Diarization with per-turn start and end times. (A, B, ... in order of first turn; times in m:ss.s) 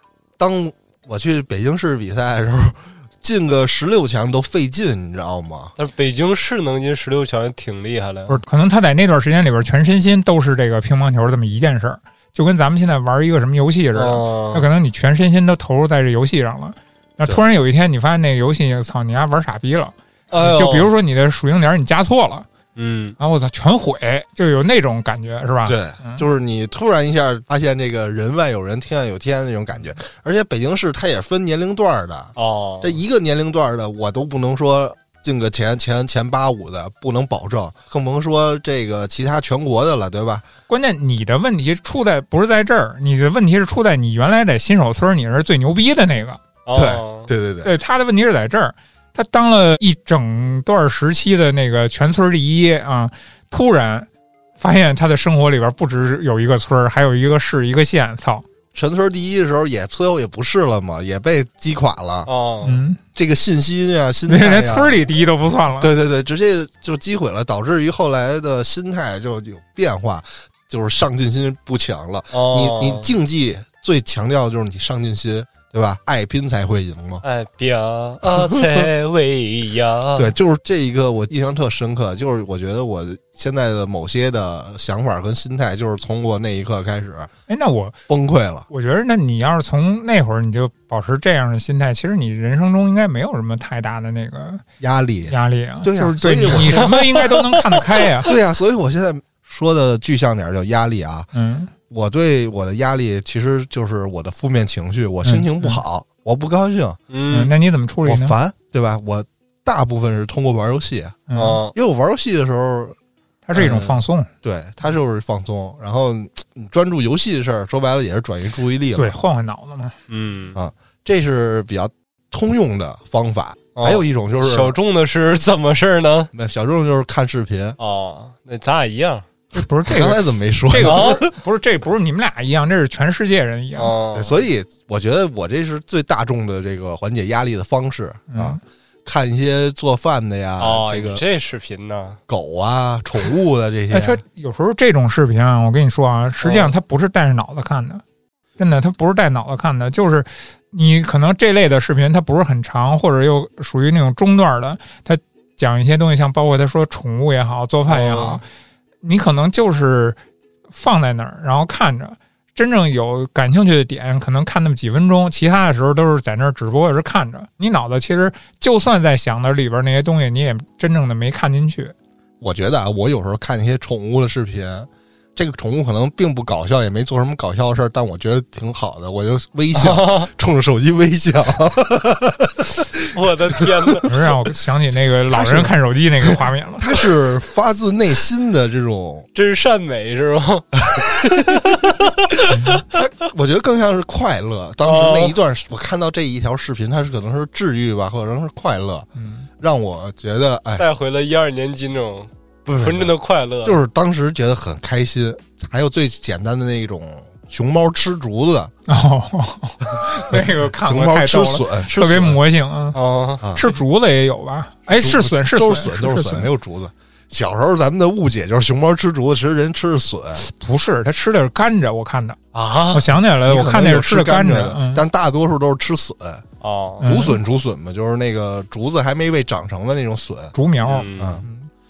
0:00.4-0:05.7 A
0:05.8-0:08.4 B
0:08.3-0:22.5 C
0:13.9-0:14.7 B
0:20.3-0:20.9 B
0:22.8-0:23.2 B
0:23.2-0:26.2 C
0:25.6-0:40.4 A
0:32.4-0:33.0 B
0:40.7-0:46.4 C
0:46.6-0:47.3 B
0:46.7-0:47.7 A
0:47.6-0:54.1 C
0:54.6-0:58.4 C
0:58.7-1:02.3 A
1:02.2-1:02.8 B
1:02.6-1:03.0 C
1:03.1-1:05.0 A
1:04.3-1:05.9 C
1:05.8-1:17.2 A
1:12.3-1:13.1 B
1:17.2-1:20.3 B
1:18.3-1:18.9 A
1:20.1-1:27.3 A
1:27.5-1:28.0 C
1:28.1-1:28.7 A
1:28.7-1:34.6 C
1:34.8-1:37.0 A
1:35.3-1:38.3 C
1:36.6-1:37.8 B
1:38.2-1:41.3 A
1:41.3-1:41.7 C
1:41.9-1:47.0 A
1:45.2-1:45.8 C
1:47.1-1:47.5 B
1:47.3-1:48.4 C
1:48.0-1:51.2 A
1:51.3-1:51.6 C
1:51.3-1:51.7 B
1:51.7-1:53.0 A
1:53.4-1:54.3 C
1:53.5-1:59.1 A
1:59.0-1:59.9 C
2:00.1-2:00.6 B
2:00.5-2:04.8 A
2:03.8-2:06.3 B
2:06.3-2:07.8 A
2:07.8-2:09.2 B
2:09.5-2:13.9 C
2:09.8-2:11.3 A
2:10.8-2:11.2 B
2:13.8-2:14.4 B
2:14.1-2:21.2 A
2:18.3-2:18.6 C
2:20.6-2:22.2 B
2:22.3-2:24.2 A
2:23.9-2:28.0 C
2:26.4-2:26.7 B
2:28.6-2:38.4 C
2:37.9-2:38.4 B
2:39.0-2:40.2 C
2:40.7-2:51.9 C
2:52.4-3:04.0 A
2:59.7-3:00.3 B
3:03.0-3:04.1 B
3:04.0-3:06.9 C
3:05.3-3:05.7 A
3:06.2-3:09.3 A
3:09.3-3:12.4 B
3:10.9-3:11.6 A
3:12.5-3:12.8 C
3:12.9-3:19.1 A
3:14.8-3:15.4 B
3:19.2-3:19.5 C
3:19.6-3:20.9 A
3:20.8-3:23.8 B
3:22.6-3:23.1 A
3:23.6-3:28.7 A
3:28.9-3:33.0 C
3:30.0-3:32.4 A
3:32.9-3:33.4 B
3:33.4-3:33.7 A
3:33.5-3:36.5 C
3:34.9-3:40.4 A
3:40.4-3:42.4 C
3:42.5-3:43.2 B
3:42.9-3:45.0 C
3:43.4-3:46.4 A
3:46.6-3:47.1 B
3:47.0-3:50.5 A
3:47.0-3:47.4 C
3:50.5-3:51.7 C
3:50.8-3:51.4 B
3:51.2-3:51.4 A